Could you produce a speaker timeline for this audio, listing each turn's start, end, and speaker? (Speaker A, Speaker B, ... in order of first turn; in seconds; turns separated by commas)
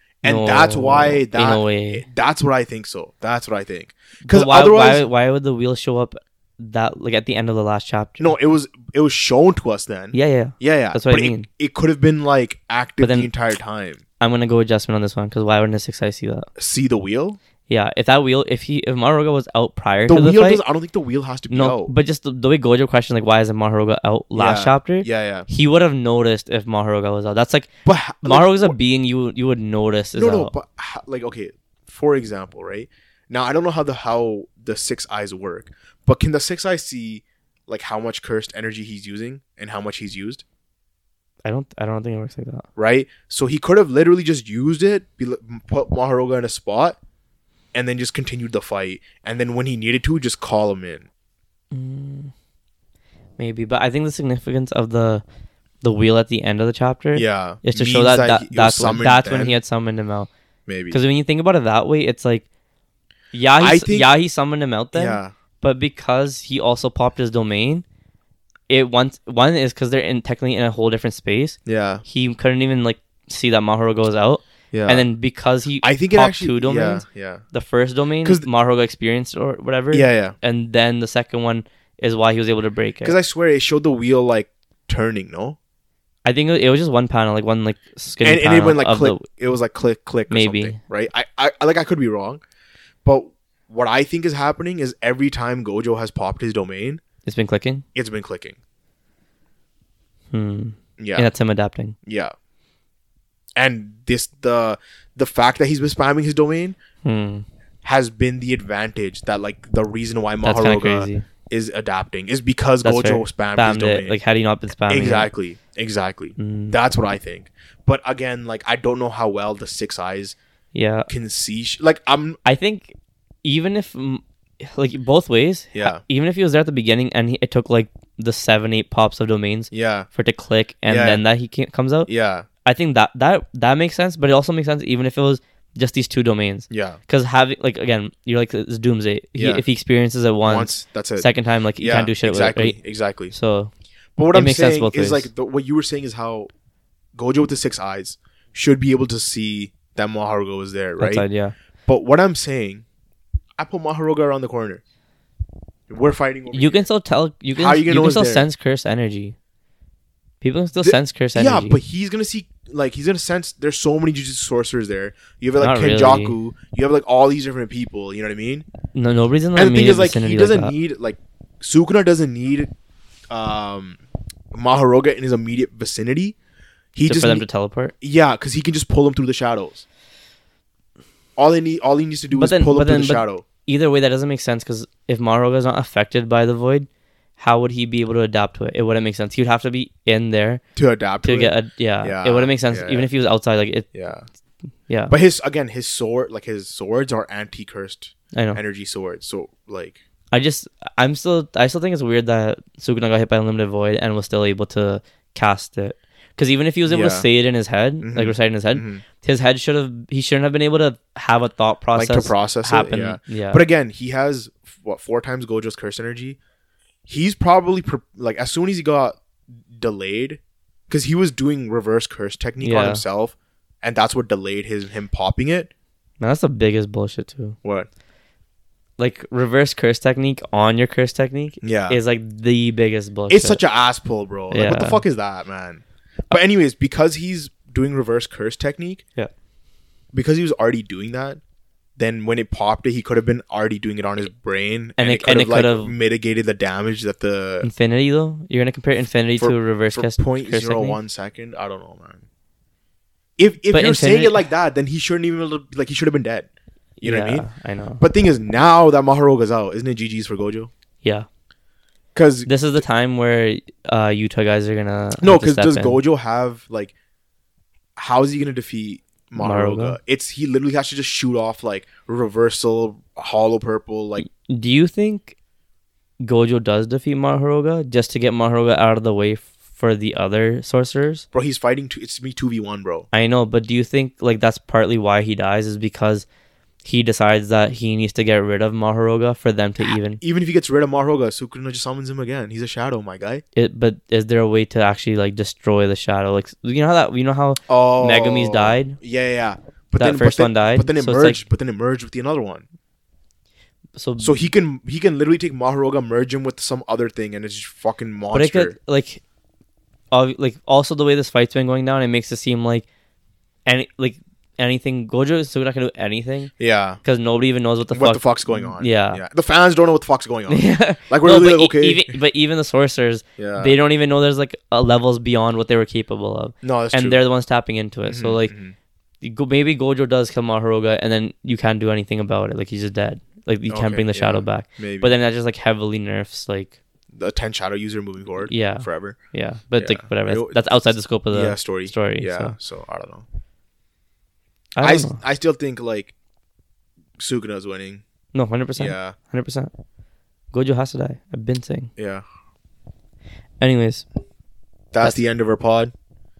Speaker A: 0.2-5.0, Speaker B: 0.2-2.0, Speaker B: 4.2-8.3, Speaker A: 8.2-14.0, Speaker B: 10.1-11.5, Speaker B: 13.0-13.3, Speaker B: 14.2-16.5, Speaker A: 16.6-17.4, Speaker B: 17.7-20.6, Speaker A: 20.1-21.9, Speaker B: 21.5-27.7, Speaker A: 24.4-25.5, Speaker A: 27.9-28.8, Speaker B: 28.2-30.5, Speaker A: 30.1-40.4, Speaker B: 41.4-42.6, Speaker A: 42.8-47.0, Speaker A: 47.7-51.1, Speaker B: 51.7-52.3, Speaker B: 53.4-55.2, Speaker B: 55.8-60.3, Speaker A: 57.1-59.6, Speaker A: 60.7-61.0, Speaker B: 60.9-62.5, Speaker B: 63.3-67.8, Speaker A: 63.6-64.1, Speaker A: 64.9-65.3, Speaker B: 68.7-83.2, Speaker A: 71.7-72.0, Speaker A: 74.7-75.0, Speaker A: 75.8-77.4, Speaker A: 79.9-80.4, Speaker A: 83.0-85.6, Speaker B: 86.2-89.2, Speaker A: 88.2-92.4, Speaker B: 90.3-90.8, Speaker A: 93.0-97.0, Speaker B: 97.2-97.8, Speaker A: 97.9-98.6, Speaker B: 100.3-102.0, Speaker A: 101.0-101.3, Speaker A: 102.0-102.3, Speaker A: 103.6-106.8, Speaker B: 107.0-107.5, Speaker A: 107.8-114.2, Speaker B: 110.4-111.3, Speaker B: 112.8-115.3, Speaker A: 114.9-120.4, Speaker B: 116.4-116.8, Speaker B: 120.7-121.1, Speaker A: 121.1-122.4, Speaker B: 122.4-132.1, Speaker A: 125.7-126.0, Speaker A: 129.7-130.1, Speaker A: 130.9-131.2, Speaker A: 132.1-132.5, Speaker B: 132.6-142.8, Speaker A: 136.7-137.0, Speaker A: 139.4-139.6, Speaker A: 140.5-141.3, Speaker A: 141.8-143.3, Speaker B: 143.3-143.7, Speaker A: 144.2-146.5, Speaker B: 144.3-145.3, Speaker A: 147.2-151.2, Speaker B: 151.0-151.6, Speaker A: 151.9-152.8, Speaker A: 153.6-154.8, Speaker A: 155.9-156.9, Speaker B: 156.5-159.4, Speaker A: 157.6-158.4, Speaker B: 160.4-161.8, Speaker A: 160.8-168.7, Speaker B: 165.6-166.4, Speaker B: 168.9-170.7, Speaker A: 169.6-172.7, Speaker A: 173.3-174.0, Speaker A: 174.5-176.4, Speaker A: 176.9-177.4, Speaker B: 177.1-177.9, Speaker A: 178.0-179.8, Speaker A: 181.4-183.4, Speaker B: 182.3-190.6, Speaker A: 190.8-193.1, Speaker B: 191.2-193.9, Speaker A: 193.9-194.3, Speaker B: 194.9-195.1, Speaker A: 195.1-200.0, Speaker B: 198.3-198.6, Speaker B: 200.3-213.7, Speaker A: 206.9-207.3, Speaker A: 208.0-209.0, Speaker A: 211.9-216.4, Speaker A: 217.1-219.2, Speaker A: 219.7-225.7, Speaker B: 222.6-223.0, Speaker B: 226.2-227.6, Speaker B: 229.0-233.6, Speaker A: 231.6-232.0, Speaker A: 233.3-239.0, Speaker B: 234.5-235.0, Speaker A: 240.1-241.4, Speaker A: 242.0-247.7, Speaker B: 245.0-245.9, Speaker B: 247.6-251.0, Speaker A: 249.4-252.2, Speaker A: 253.4-256.5, Speaker B: 253.7-254.5, Speaker B: 257.0-258.0, Speaker A: 257.0-257.5, Speaker A: 258.0-260.7, Speaker A: 262.1-262.5, Speaker B: 262.4-266.0, Speaker A: 265.2-266.9, Speaker A: 268.0-274.3, Speaker B: 269.4-270.0, Speaker B: 274.2-275.4, Speaker B: 276.2-281.3, Speaker A: 281.3-283.1, Speaker B: 283.1-286.3, Speaker B: 286.8-290.2, Speaker A: 289.8-293.4, Speaker B: 293.6-299.0, Speaker A: 297.7-302.6, Speaker B: 300.0-301.4, Speaker B: 303.9-304.4, Speaker A: 304.2-308.7, Speaker B: 308.3-309.2, Speaker B: 310.1-312.9, Speaker B: 313.6-319.2, Speaker A: 316.6-317.0, Speaker A: 317.9-322.1, Speaker B: 320.5-328.5, Speaker A: 323.4-323.7, Speaker A: 326.6-327.2, Speaker A: 328.1-328.7, Speaker B: 329.2-336.7, Speaker A: 333.7-335.1, Speaker A: 337.1-339.2, Speaker B: 338.4-342.5, Speaker A: 339.8-340.6, Speaker A: 341.3-343.2, Speaker B: 344.7-345.2, Speaker A: 344.8-346.1, Speaker A: 347.2-348.0, Speaker B: 348.3-349.7, Speaker A: 348.8-349.1, Speaker B: 350.5-351.9, Speaker A: 352.0-352.2, Speaker B: 353.6-354.1, Speaker A: 354.9-355.9